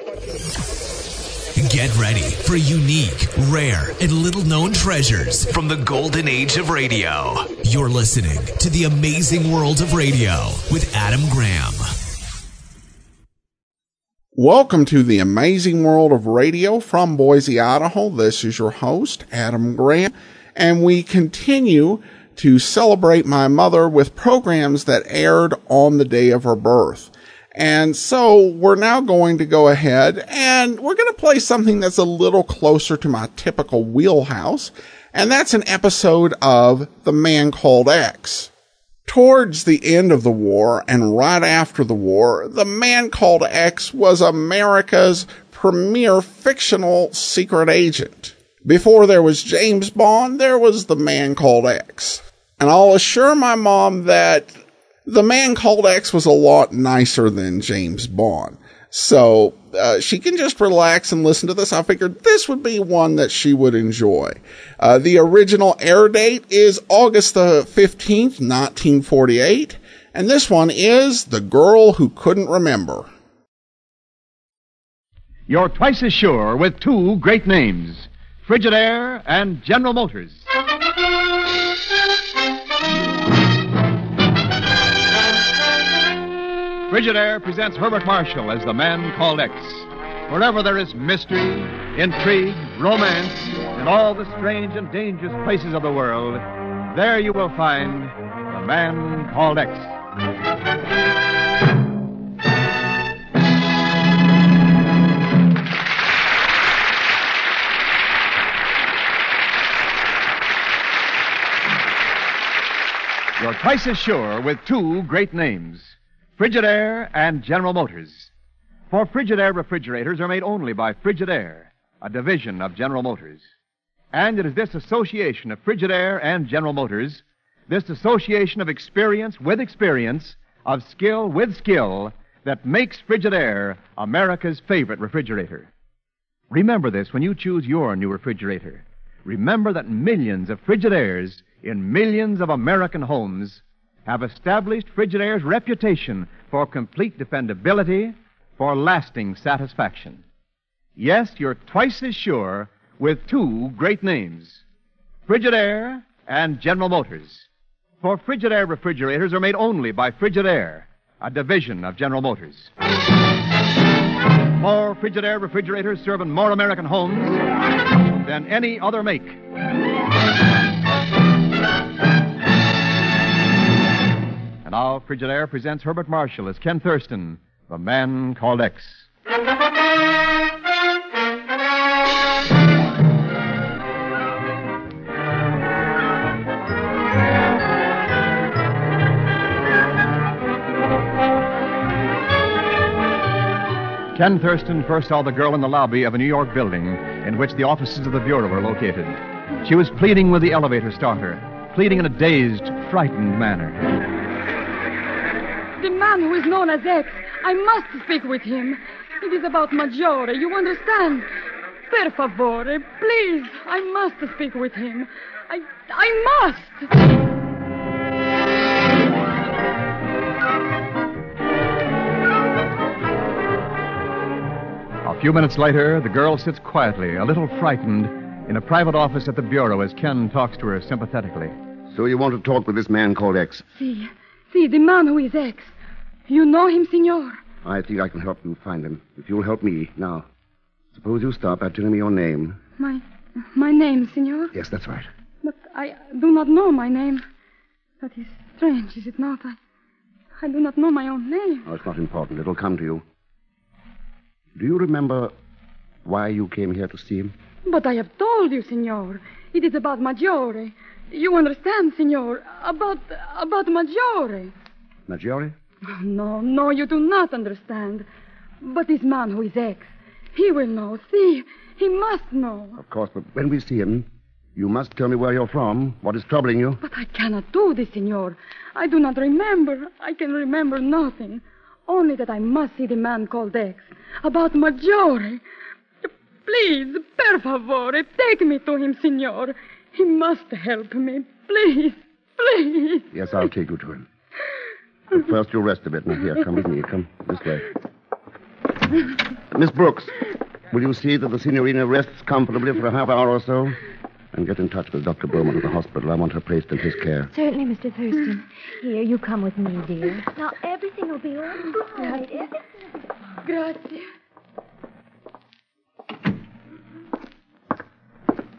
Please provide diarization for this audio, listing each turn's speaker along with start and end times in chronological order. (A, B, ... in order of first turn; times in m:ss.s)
0:01.5-0:11.8 A
0:14.4-0:38.5 B
0:39.1-1:13.1 B
1:15.5-1:20.5 C
1:26.9-1:39.9 C
1:53.4-1:58.3 C
1:58.9-2:03.4 C
2:04.1-2:15.7 C
2:16.5-2:30.2 C
2:31.0-2:34.6 C
2:35.3-2:37.5 C
2:38.0-2:42.7 C
2:44.6-2:47.4 C
2:48.2-2:49.4 C
2:54.6-2:59.1 C
3:14.1-3:23.8 C
3:25.8-3:31.3 D
3:31.9-3:36.9 D
3:45.0-3:51.5 C
3:51.9-3:53.6 E
3:53.8-3:55.7 D
3:56.3-3:57.4 D
3:57.6-4:00.2 E
4:00.9-4:02.6 E
4:03.5-4:04.5 D
4:04.5-4:05.1 E
4:05.4-4:07.2 D
4:08.0-4:09.6 D
4:10.4-4:11.6 D
4:11.6-4:13.0 E
4:14.6-4:15.3 E
4:16.0-4:17.3 E
4:17.6-4:24.5 D
4:25.1-4:25.5 E
4:25.9-4:28.1 D
4:28.6-4:32.8 D
4:32.8-4:36.8 E
4:36.8-4:45.4 D
4:46.0-4:53.1 D
4:53.1-4:54.1 E
4:55.1-4:57.6 E
4:59.5-5:00.1 E
5:00.7-5:03.8 E
5:04.3-5:07.3 E
5:07.3-5:11.4 F
5:12.0-5:12.4 D
5:13.4-5:14.1 D